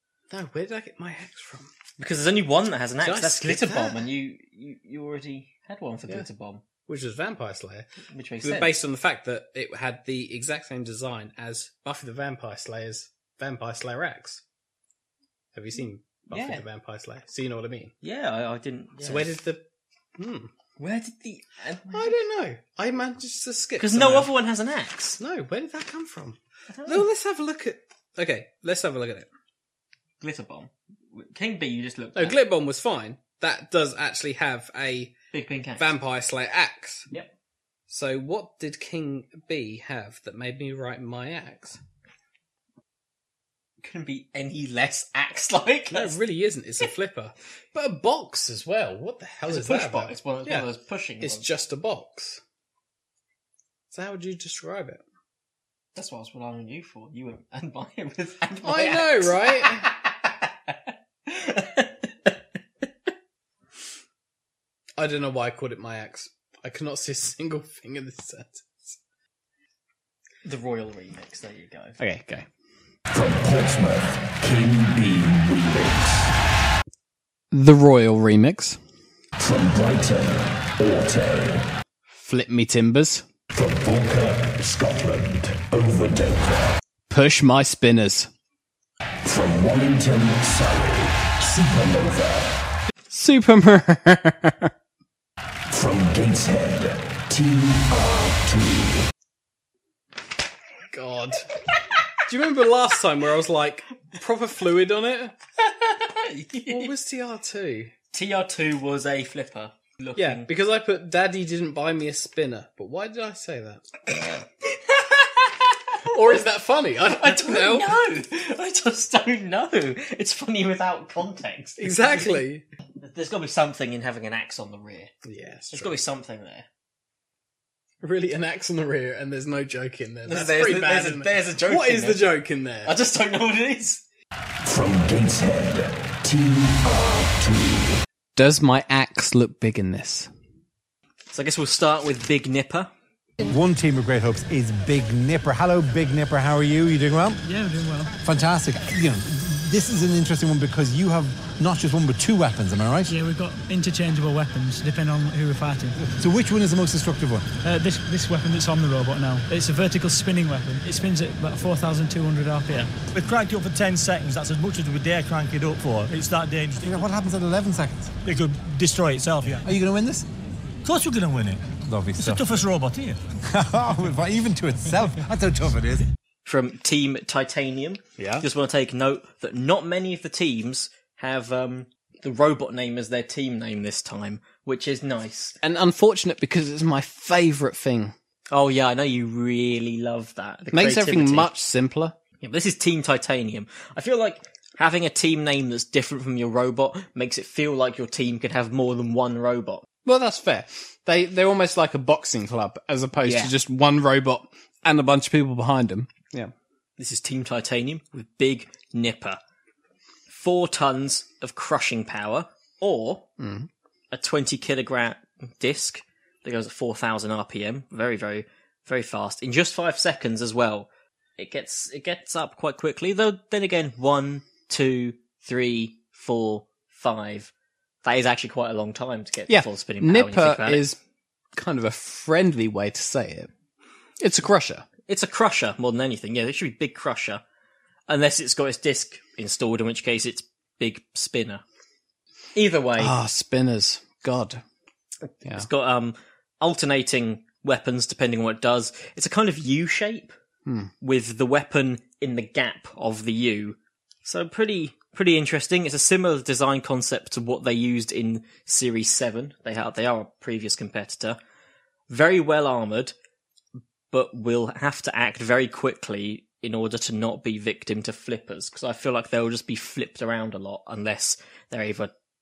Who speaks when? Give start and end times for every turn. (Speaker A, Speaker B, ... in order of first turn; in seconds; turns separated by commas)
Speaker A: 0.3-1.7, Speaker B: 2.0-6.6, Speaker A: 3.0-4.1, Speaker A: 6.9-7.9, Speaker B: 8.1-8.8, Speaker A: 8.4-14.4, Speaker A: 15.5-17.9, Speaker B: 16.3-16.6, Speaker B: 18.0-19.3, Speaker A: 19.0-19.6, Speaker A: 20.2-20.5, Speaker B: 20.8-22.2, Speaker A: 21.9-24.3, Speaker B: 23.8-25.2, Speaker A: 25.2-29.3, Speaker B: 26.7-27.0, Speaker B: 30.2-32.4, Speaker A: 32.2-35.1, Speaker B: 35.3-35.9, Speaker A: 35.8-37.1, Speaker A: 37.9-41.8, Speaker B: 43.8-46.2, Speaker A: 45.9-50.7, Speaker B: 49.5-51.5, Speaker A: 51.2-52.4, Speaker A: 53.9-55.0, Speaker B: 56.0-60.7, Speaker A: 58.6-59.9, Speaker B: 61.3-62.3, Speaker A: 65.0-69.0, Speaker B: 70.5-72.0, Speaker A: 72.0-72.5, Speaker C: 73.1-76.3, Speaker A: 77.5-78.8, Speaker C: 79.4-81.7, Speaker A: 82.1-83.2, Speaker C: 83.5-86.8, Speaker A: 87.1-88.3, Speaker C: 89.2-92.6, Speaker A: 93.1-94.7, Speaker C: 95.7-99.1, Speaker A: 100.9-101.5, Speaker A: 102.3-105.3, Speaker B: 105.6-106.9, Speaker A: 106.7-107.9, Speaker B: 108.1-110.5, Speaker A: 110.2-114.0, Speaker B: 115.1-115.6, Speaker A: 116.1-118.0, Speaker B: 117.0-122.5, Speaker A: 121.8-122.7, Speaker B: 123.0-125.1, Speaker A: 125.3-126.0, Speaker B: 125.7-126.7, Speaker A: 128.0-132.9, Speaker B: 130.3-134.0, Speaker C: 134.6-138.0, Speaker A: 138.4-140.3, Speaker B: 141.3-142.9, Speaker D: 143.4-147.4, Speaker E: 147.4-148.1, Speaker D: 148.2-153.1, Speaker E: 153.1-156.0, Speaker D: 156.1-157.4, Speaker E: 157.6-162.9, Speaker F: 163.1-167.0, Speaker D: 166.8-168.1, Speaker F: 168.2-169.7, Speaker D: 169.7-170.3, Speaker F: 170.8-171.6, Speaker D: 171.8-172.5, Speaker F: 172.2-173.2, Speaker D: 173.4-176.1, Speaker B: 176.4-185.6, Speaker A: 178.2-178.4, Speaker A: 185.6-188.1, Speaker B: 188.5-191.6, Speaker A: 190.7-192.2, Speaker B: 192.4-199.8, Speaker A: 200.1-206.5, Speaker B: 203.2-203.5, Speaker B: 207.0-209.4, Speaker B: 210.3-213.3, Speaker A: 213.4-213.7, Speaker B: 214.1-227.5, Speaker B: 228.0-230.8, Speaker A: 229.5-231.0, Speaker A: 231.6-233.5, Speaker A: 234.2-234.9, Speaker B: 235.1-237.4, Speaker B: 238.1-241.6, Speaker B: 242.6-243.2, Speaker A: 243.0-244.6, Speaker B: 245.5-250.3, Speaker A: 250.7-250.9, Speaker B: 251.0-261.4, Speaker B: 262.1-263.1, Speaker B: 264.1-272.1